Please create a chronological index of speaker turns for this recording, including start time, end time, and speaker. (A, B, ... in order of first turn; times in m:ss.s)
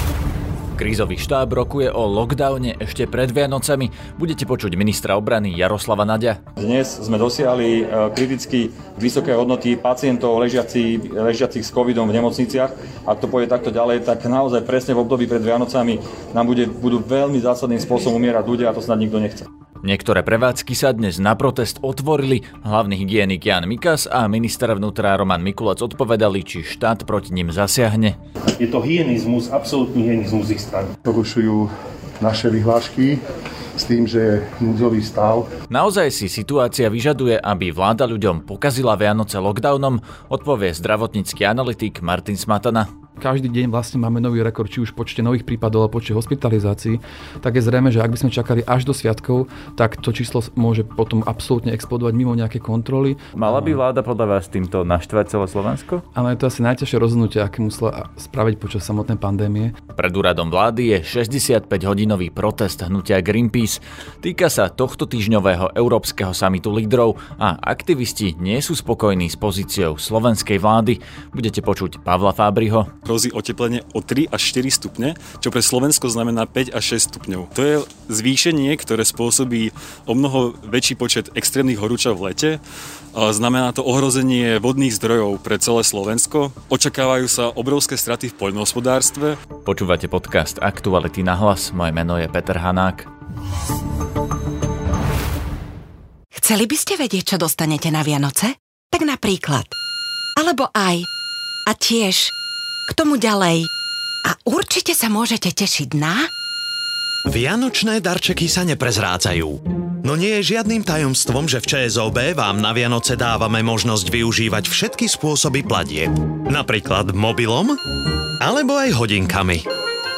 0:00.7-0:06.4 A
0:06.6-0:19.5 B
0:19.8-0:28.2 A
0:28.6-0:30.9 C
0:31.0-0:33.2 D
0:33.8-0:35.5 D
0:35.7-0:42.9 A
0:43.2-0:53.8 E
0:53.3-0:56.0 A
0:56.1-0:59.7 E
0:59.9-1:12.9 A
1:13.0-1:22.6 F
1:23.1-1:29.4 F
1:29.6-1:33.1 A
1:36.3-1:39.7 G
1:40.4-1:41.1 G
1:41.6-1:42.3 G
1:42.9-1:43.7 G
1:44.2-1:46.3 G
1:47.3-1:57.8 H
1:58.4-1:59.6 H